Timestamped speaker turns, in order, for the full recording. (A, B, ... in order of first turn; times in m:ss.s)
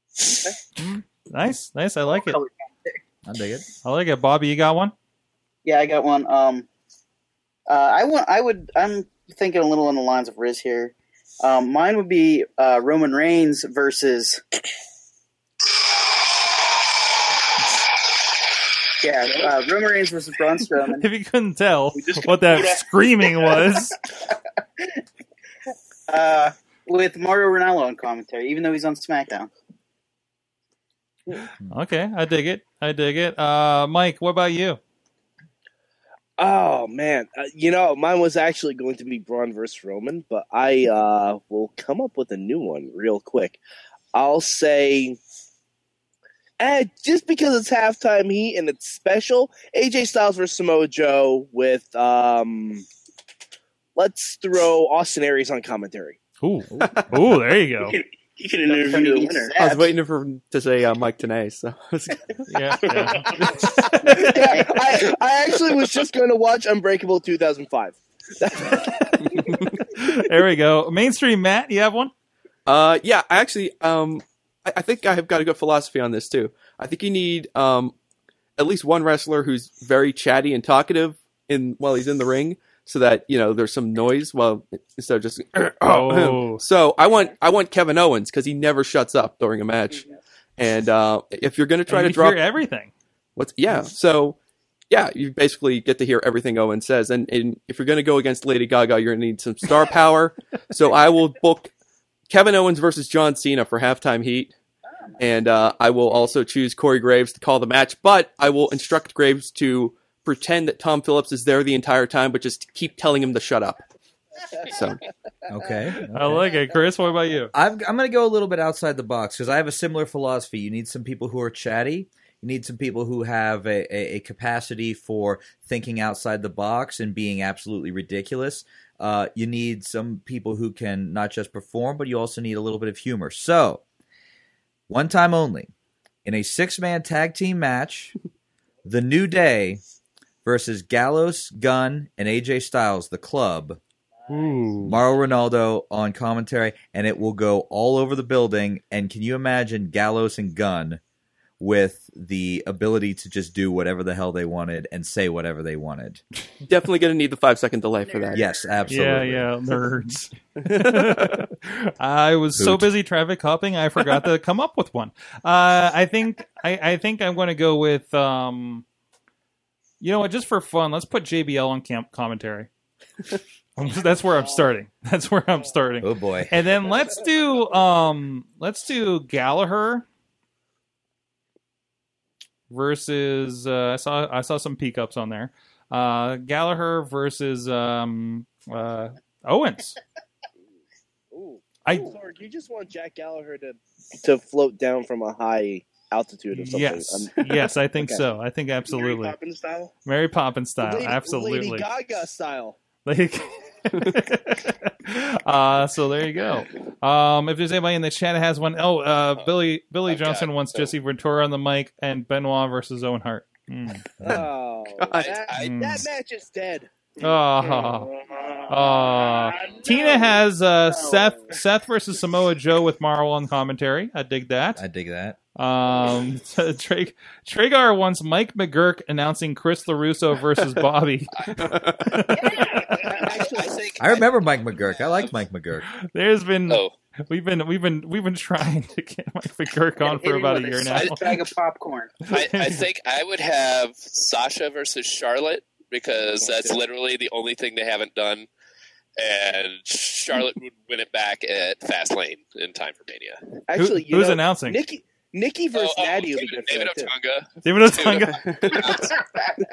0:00.8-0:02.4 A
0:02.1-0:02.9 B
0:03.2-0:03.6 C
0:03.8-0:04.9 A
0:05.6-0:06.6 B
0:07.7-0:14.4 B
0:19.0-0:21.0 B
0:21.0-0:23.9 A
0:22.0-0:22.8 D
0:26.1-0:29.5 B
0:31.7-0:34.8 A
0:36.4-0:43.6 E
0:44.1-0:45.2 E
0:46.6-0:52.8 E
0:54.0-0:56.2 E
0:56.4-0:58.0 A
0:56.7-0:57.4 C
0:57.9-0:59.5 D
0:58.7-0:59.9 B
0:59.6-1:02.4 F
1:02.5-1:04.5 A
1:03.0-1:03.4 D
1:04.1-1:09.4 E
1:04.4-1:05.0 B
1:09.8-1:12.1 A
1:12.6-1:17.9 F
1:18.6-1:30.0 F
1:25.8-1:26.6 A
1:30.6-1:32.4 F
1:31.9-1:32.9 A
1:33.4-1:34.4 F
1:34.9-1:41.7 F
1:42.3-1:44.5 F
1:45.2-1:53.8 F
1:54.7-1:55.0 F
1:55.5-1:56.5 C
1:56.1-1:57.5 A
1:57.5-2:13.8 C
2:14.9-2:15.7 C
2:16.2-2:18.1 C
2:18.8-2:19.8 C
2:20.4-2:23.8 C
2:24.3-2:25.0 A
2:24.8-2:31.0 C
2:31.6-2:36.2 C
2:36.7-2:38.5 F
2:38.1-2:38.4 B
2:38.3-2:39.5 C
2:38.9-2:48.8 A
2:40.6-2:41.5 F
2:42.6-2:42.9 C
2:50.0-2:52.7 A
2:53.8-3:00.0 A
2:56.0-2:56.5 C
3:02.7-3:10.0 A
3:11.3-3:18.2 E
3:11.8-3:12.2 A
3:16.5-3:19.3 A
3:18.9-3:19.9 D
3:20.0-3:21.8 A
3:20.8-3:22.8 E
3:23.0-3:34.1 A
3:30.1-3:30.9 G
3:34.2-3:34.5 C
3:34.2-3:36.9 E
3:35.0-3:35.3 F
3:35.1-3:35.9 G
3:35.5-3:36.0 A
3:37.2-3:38.1 A
3:37.2-3:40.3 D
3:38.7-3:44.8 A
3:40.9-3:41.4 B
3:44.8-3:45.4 C
3:45.6-3:53.0 A
3:51.6-3:52.2 F
3:52.3-3:53.6 B
3:52.8-3:54.5 G
3:54.0-3:55.8 C
3:55.9-4:01.2 A
3:56.7-3:56.9 G
4:00.0-4:02.2 B
4:00.9-4:01.4 G
4:02.2-4:02.8 A
4:02.3-4:08.5 G
4:06.4-4:06.8 E
4:09.2-4:13.5 G
4:13.7-4:17.1 E
4:13.8-4:14.8 A
4:15.7-4:19.2 G
4:17.6-4:18.5 A
4:18.3-4:18.9 F